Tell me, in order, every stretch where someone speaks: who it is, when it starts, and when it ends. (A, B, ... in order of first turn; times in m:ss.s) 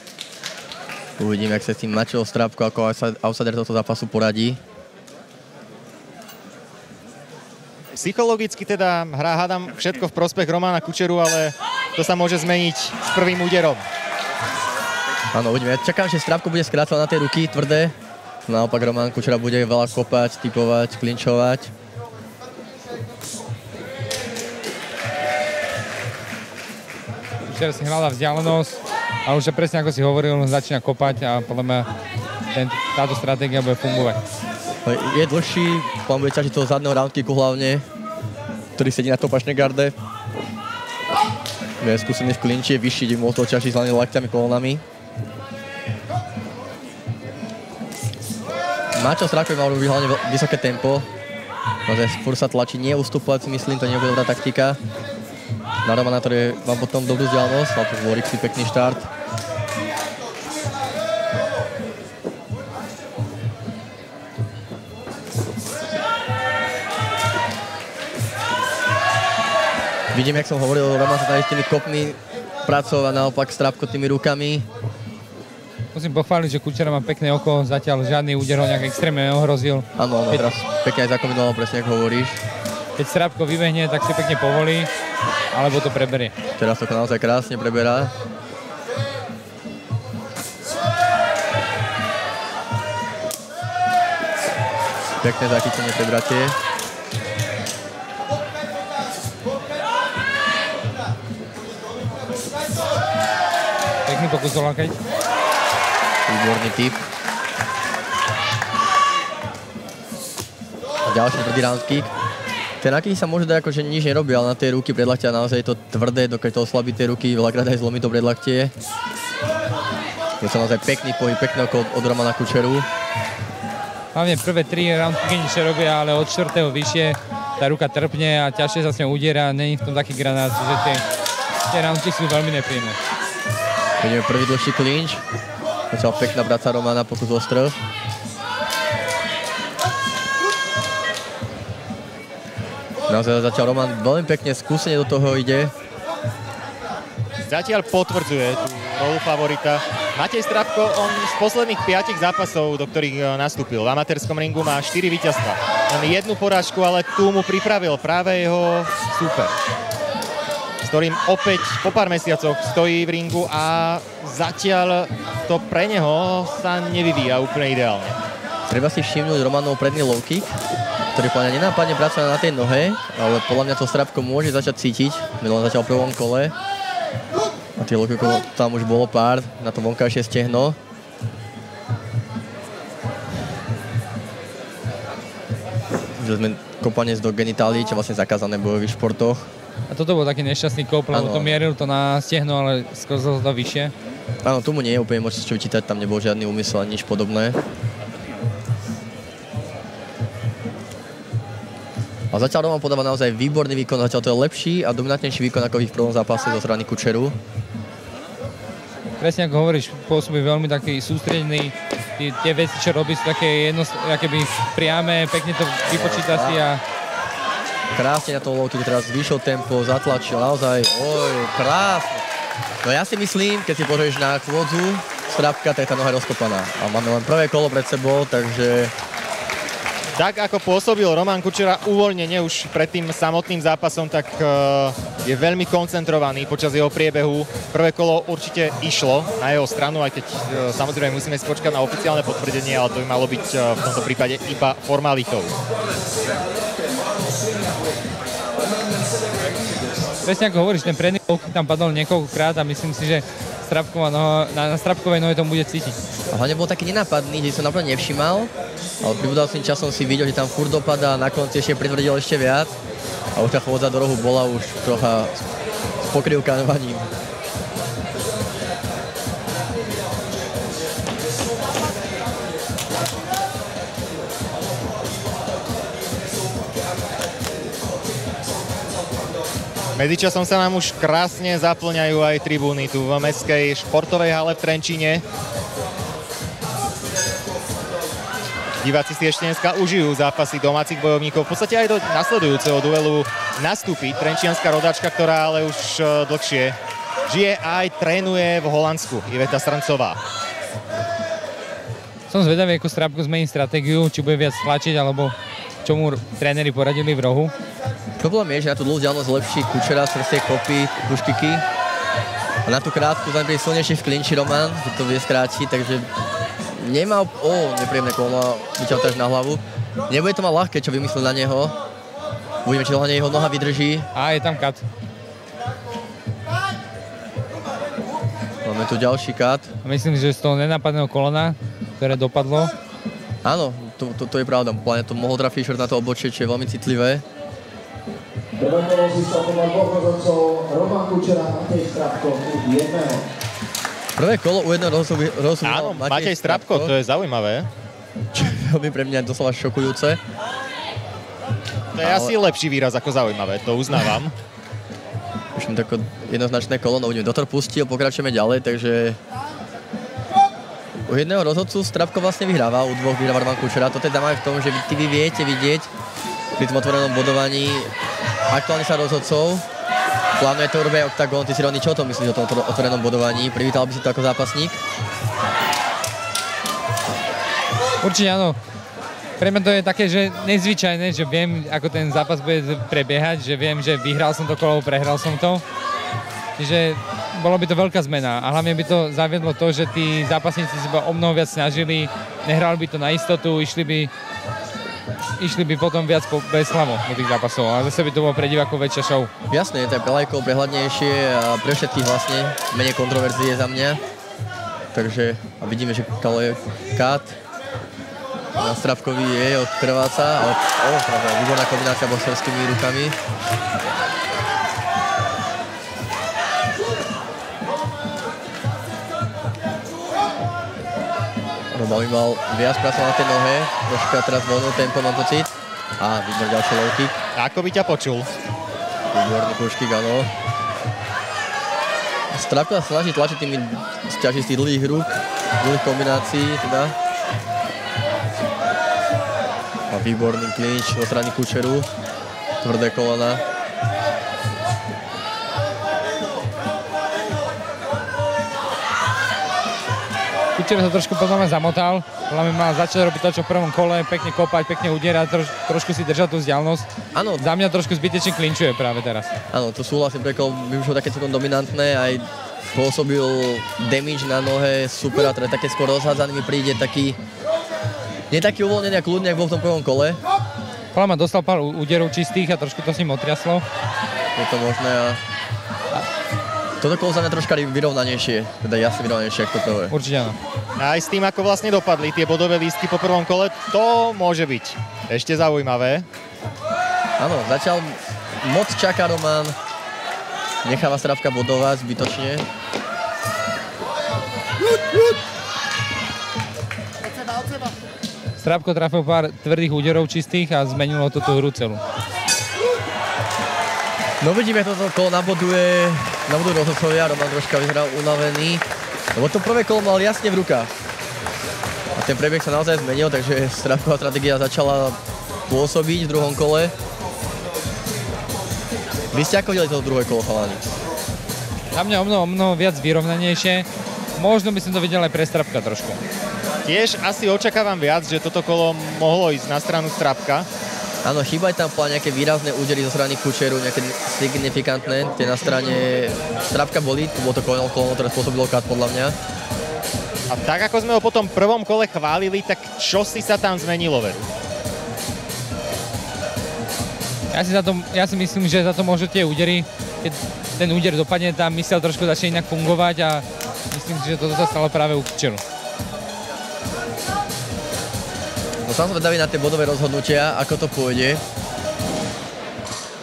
0:01.2-0:04.6 A
0:07.9-0:13.8 B
0:15.3-0:17.9 A
0:18.4-0:21.7 A
0:27.5-0:31.9 C
0:32.5-0:34.2 C
0:34.8-0:37.8 A
0:38.8-0:39.9 A
0:41.8-0:44.8 A
0:48.9-0:51.1 A
0:51.8-0:54.8 A
0:55.8-0:59.1 A
1:10.1-1:14.7 A
1:15.9-1:20.5 C
1:20.0-1:22.4 A
1:23.0-1:24.9 C
1:25.5-1:26.3 C
1:26.6-1:28.1 A
1:35.2-1:36.6 A
1:44.1-1:45.0 C
1:46.3-1:47.0 A
1:51.0-1:52.1 A
1:52.8-1:58.7 A
2:00.4-2:02.9 A
2:04.1-2:11.0 C
2:11.7-2:13.0 C
2:14.0-2:15.2 A
2:15.9-2:17.8 A
2:23.0-2:25.7 A
2:27.5-2:39.5 B
2:40.8-2:48.2 B
2:48.7-2:50.5 A
2:51.1-2:56.5 A
2:57.8-3:00.8 A
3:06.2-3:09.5 A
3:09.9-3:13.9 C
3:11.1-3:11.6 A
3:14.4-3:17.6 A
3:22.3-3:27.4 A
3:29.2-3:36.8 C
3:35.9-3:36.6 A
3:37.9-3:42.2 A
3:42.8-3:48.9 A
3:50.2-4:05.5 B
4:10.2-4:16.0 C
4:16.3-4:22.7 A
4:23.3-4:25.4 A
4:26.0-4:27.1 A
4:40.0-4:45.2 B
4:48.8-4:56.8 B
4:57.3-5:00.2 B
5:02.3-5:07.5 C
5:08.2-5:11.6 A
5:12.6-5:16.1 A
5:16.7-5:21.7 A
5:22.6-5:24.1 A
5:24.1-5:24.8 C
5:28.6-5:29.7 A
5:29.8-5:32.7 C
5:33.4-5:37.2 A
5:38.6-5:43.2 D
5:44.2-5:46.9 A
5:45.6-5:47.7 B
5:48.3-5:50.2 A
5:51.9-5:54.3 B
5:52.0-5:52.3 A
5:55.5-5:59.2 A
6:00.9-6:05.9 A
6:06.6-6:07.9 A
6:08.5-6:09.6 A
6:10.4-6:14.8 A
6:18.0-6:18.6 C
6:19.4-6:25.6 C
6:26.6-6:34.1 C
6:35.4-6:39.3 C
6:39.5-6:44.0 A
6:44.9-6:47.4 A
6:48.6-6:53.2 A
7:01.7-7:07.2 A
7:07.4-7:08.3 B
7:09.1-7:10.3 A
7:12.3-7:16.9 A
7:19.9-7:21.9 A
7:22.6-7:23.4 A
7:30.6-7:39.3 C
7:37.1-7:37.4 A
7:39.5-7:47.2 A
7:48.3-7:50.2 A
7:50.9-7:53.6 C
7:54.3-7:55.2 A
7:56.8-7:59.9 A
7:59.9-8:00.4 C
8:00.8-8:06.0 B
8:07.2-8:09.6 A
8:10.6-8:12.4 A
8:18.4-8:21.8 C
8:24.2-8:30.7 A
8:31.9-8:35.0 A
8:35.5-8:36.7 A
8:39.1-8:40.7 A
8:41.7-8:43.6 C
8:44.2-8:46.0 C
8:46.6-8:50.5 B
8:51.0-8:59.2 A
9:00.3-9:04.2 B
9:07.3-9:15.4 C
9:18.6-9:21.2 A